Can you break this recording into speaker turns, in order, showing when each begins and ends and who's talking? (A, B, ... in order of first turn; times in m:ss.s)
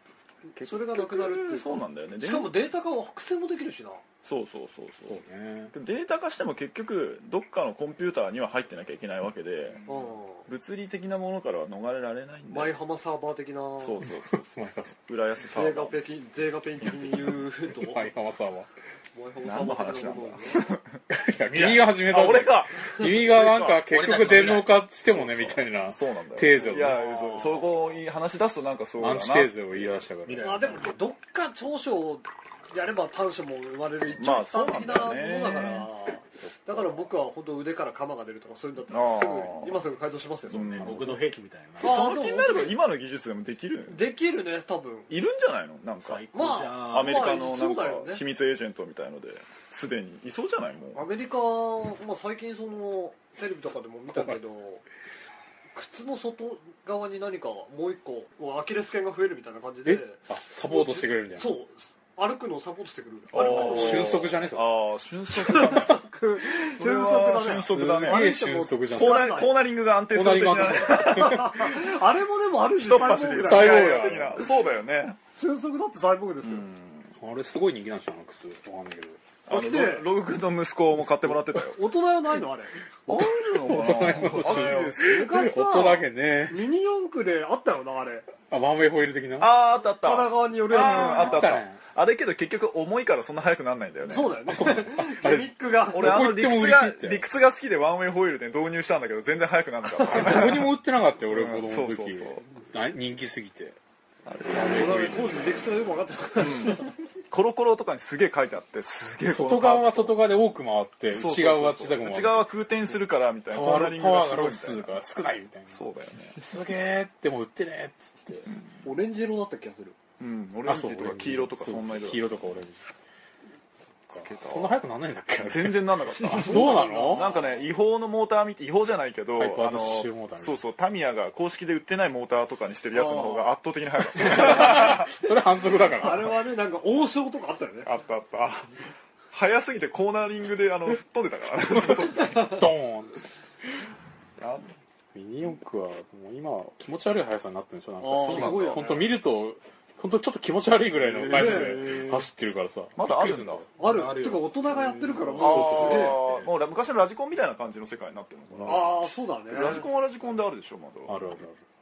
0:00.5-0:04.0 A
0:00.6-0:02.6 B
0:04.2-0:05.2 B
0:05.0-0:05.8 C
0:05.7-0:10.0 B
0:09.9-0:10.5 A
0:10.5-0:12.8 B
0:12.5-0:14.0 A
0:13.8-0:16.0 B
0:14.3-0:15.0 C
0:15.5-0:18.1 A
0:16.9-0:17.3 B
0:17.7-0:18.7 C
0:19.2-0:20.7 A
0:19.4-0:21.0 B
0:21.1-0:27.0 C
0:21.5-0:22.0 D
0:21.8-0:23.8 B
0:23.9-0:24.8 D
0:25.1-0:30.0 B
0:26.9-0:27.3 A
0:29.0-0:30.8 C
0:30.3-0:31.0 D
0:30.4-0:41.0 A
0:34.1-0:35.9 B
0:36.4-0:36.8 C
0:38.9-0:39.8 B
0:40.5-0:41.2 B
0:40.5-0:42.0 D
0:41.8-0:44.1 B
0:41.8-0:42.7 A
0:43.9-0:45.1 A
0:45.1-0:51.1 B
0:46.0-0:47.4 D
0:46.3-0:48.2 A
0:50.9-0:54.8 A
0:55.7-1:04.2 A
0:59.8-1:01.6 C
1:03.3-1:06.0 B
1:03.3-1:04.7 C
1:05.4-1:09.5 A
1:06.6-1:08.3 B
1:07.6-1:09.4 C
1:08.9-1:11.8 B
1:10.1-1:11.6 C
1:10.8-1:14.5 A
1:12.8-1:15.2 B
1:13.4-1:14.4 C
1:15.4-1:16.7 A
1:16.4-1:17.1 B
1:17.2-1:19.2 C
1:19.5-1:21.8 B
1:19.5-1:20.1 A
1:21.3-1:22.7 A
1:23.1-1:25.3 B
1:23.2-1:26.7 C
1:24.2-1:28.3 A
1:28.5-1:29.5 C
1:29.4-1:34.7 B
1:30.0-1:31.6 A
1:30.7-1:31.8 C
1:34.1-1:36.3 A
1:34.5-1:37.2 C
1:35.9-1:42.4 B
1:40.0-1:43.8 C
1:44.2-1:45.0 B
1:44.5-1:45.8 C
1:44.6-1:46.9 A
1:46.4-1:50.3 B
1:49.3-1:52.5 C
1:51.1-1:55.0 B
1:53.5-1:55.8 C
1:55.7-1:56.4 B
1:56.4-1:58.5 C
1:58.8-2:00.0 A
2:00.2-2:02.3 B
2:00.6-2:02.8 C
2:04.1-2:04.8 B
2:04.1-2:07.3 C
2:05.4-2:15.1 B
2:06.2-2:07.4 A
2:09.4-2:10.6 C
2:12.9-2:13.5 A
2:14.2-2:16.4 C
2:14.3-2:15.1 A
2:15.9-2:17.9 A
2:17.8-2:18.7 B
2:19.3-2:22.7 B
2:21.8-2:23.2 C
2:24.4-2:24.6 B
2:25.1-2:33.7 C
2:28.0-2:29.1 A
2:28.2-2:28.8 B
2:31.0-2:32.3 B
2:31.3-2:31.8 A
2:33.0-2:33.7 B
2:33.8-2:36.2 A
2:33.8-2:35.7 D
2:35.4-2:36.4 C
2:35.4-2:41.4 B
2:38.5-2:38.9 C
2:38.6-2:39.9 A
2:41.1-2:41.6 C